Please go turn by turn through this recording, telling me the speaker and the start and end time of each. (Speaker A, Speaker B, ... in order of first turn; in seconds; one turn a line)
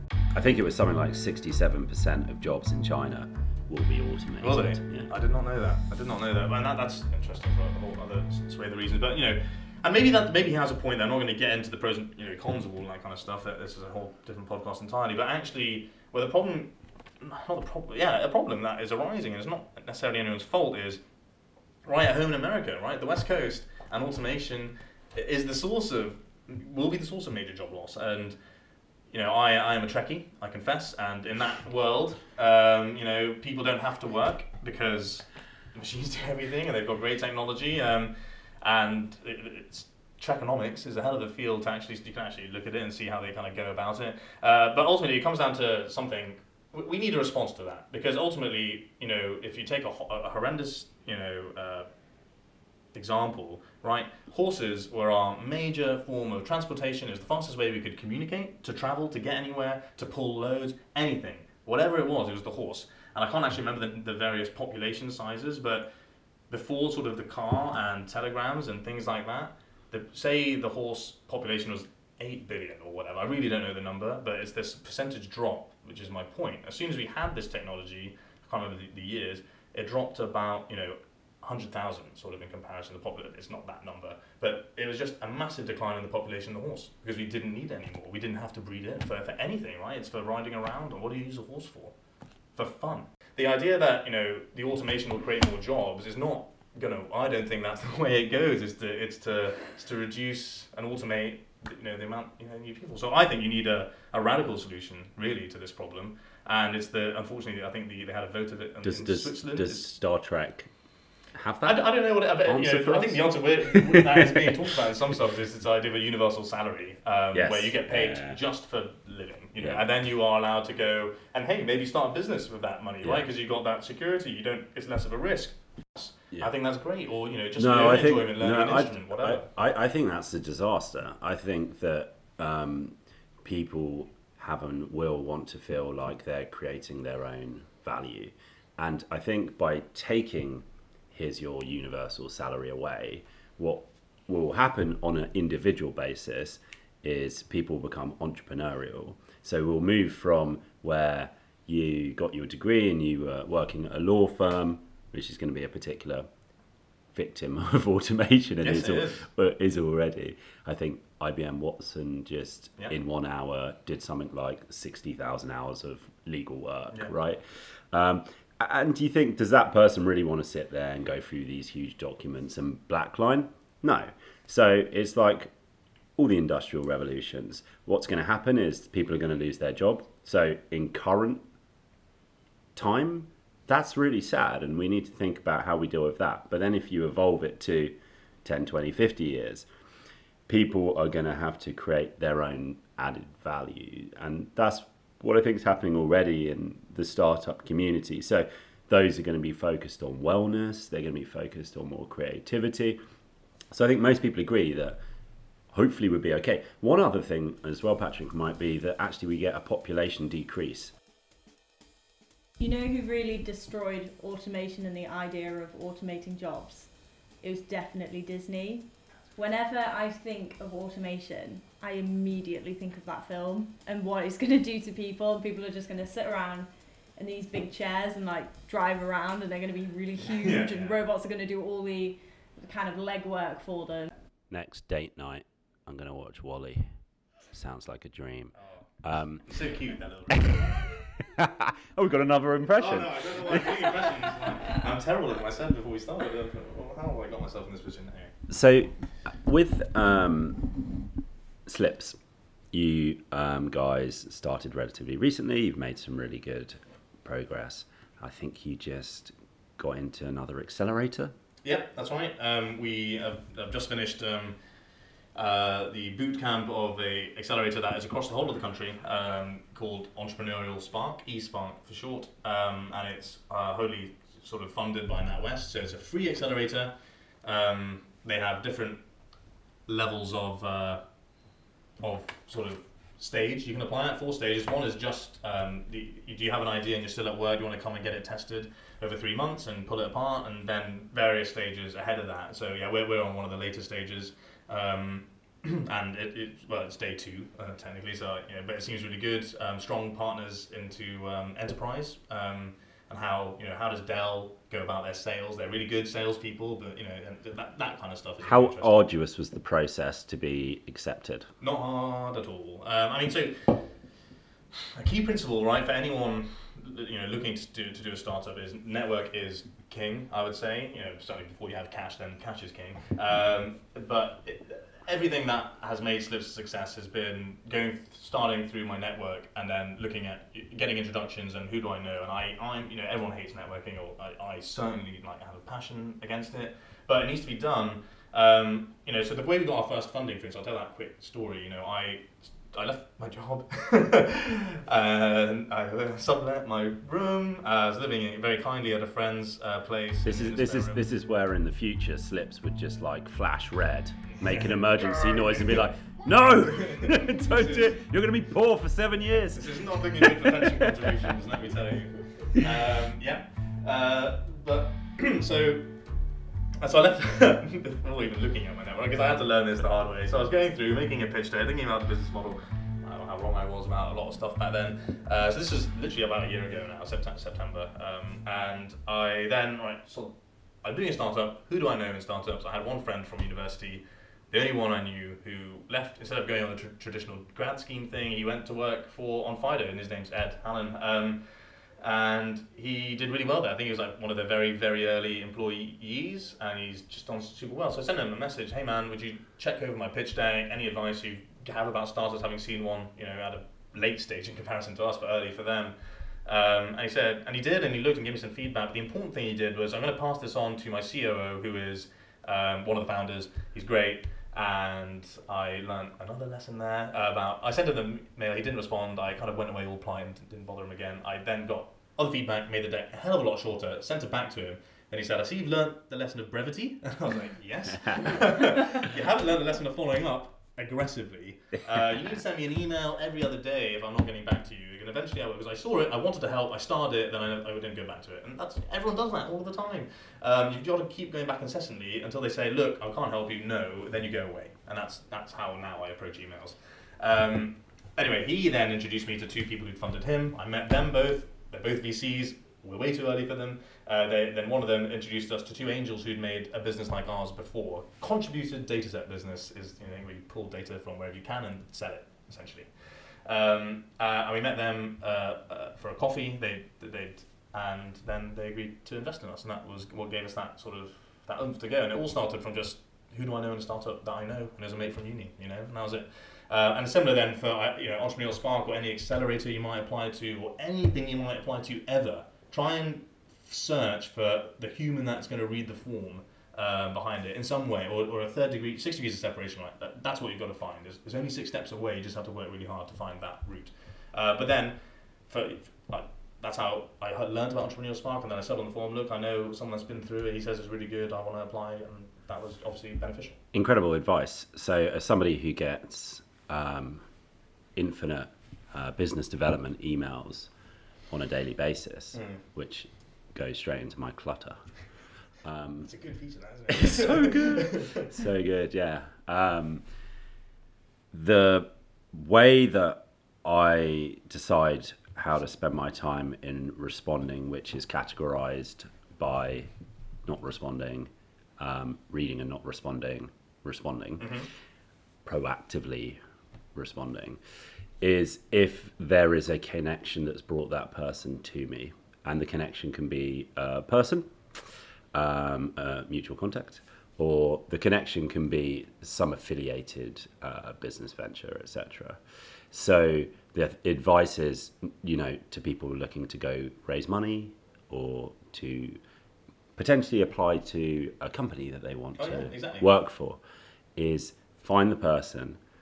Speaker A: 0.3-5.1
Speaker B: 4.4-21.0
Speaker B: 21.9-28.4
Speaker B: 29.1-51.9
Speaker B: 52.9-65.9
Speaker B: 66.5-91.9
Speaker B: 92.6-109.9
Speaker A: 108.8-110.7
Speaker A: 111.3-111.9
Speaker B: 111.6-129.5
Speaker A: 112.5-114.5
Speaker A: 117.3-118.4
Speaker A: 119.6-119.9
Speaker A: 123.0-123.3
Speaker A: 127.6-156.3
Speaker A: 157.1-175.5
Speaker B: 158.6-159.3
Speaker A: 176.2-181.4
Speaker A: 182.8-189.7
Speaker A: 190.5-203.0
Speaker A: 203.7-205.0
Speaker A: 205.7-210.9
Speaker C: 212.6-234.1
Speaker B: 230.3-231.0
Speaker A: 234.5-239.5
Speaker B: 238.6-240.9
Speaker A: 240.3-244.3
Speaker B: 242.8-248.3
Speaker A: 248.5-250.8
Speaker A: 251.7-252.2
Speaker A: 252.7-261.3
Speaker B: 261.6-264.6
Speaker B: 265.4-276.9
Speaker B: 277.4-279.0
Speaker B: 279.9-281.0
Speaker B: 282.0-309.1
Speaker A: 308.4-311.5
Speaker B: 311.6-314.1
Speaker B: 314.7-351.0
Speaker A: 350.2-361.3
Speaker B: 354.4-358.0
Speaker B: 359.5-365.9
Speaker B: 366.8-503.6
Speaker A: 503.7-507.2
Speaker A: 508.0-510.7
Speaker A: 511.3-515.0
Speaker B: 512.3-512.6
Speaker A: 515.6-516.1
Speaker B: 516.0-518.2
Speaker A: 516.9-520.0
Speaker A: 521.3-529.9
Speaker A: 530.4-534.5
Speaker B: 534.4-534.7
Speaker A: 535.5-536.4
Speaker A: 536.9-537.6
Speaker A: 538.2-559.2
Speaker A: 560.0-563.6
Speaker B: 562.4-563.1
Speaker A: 564.1-565.8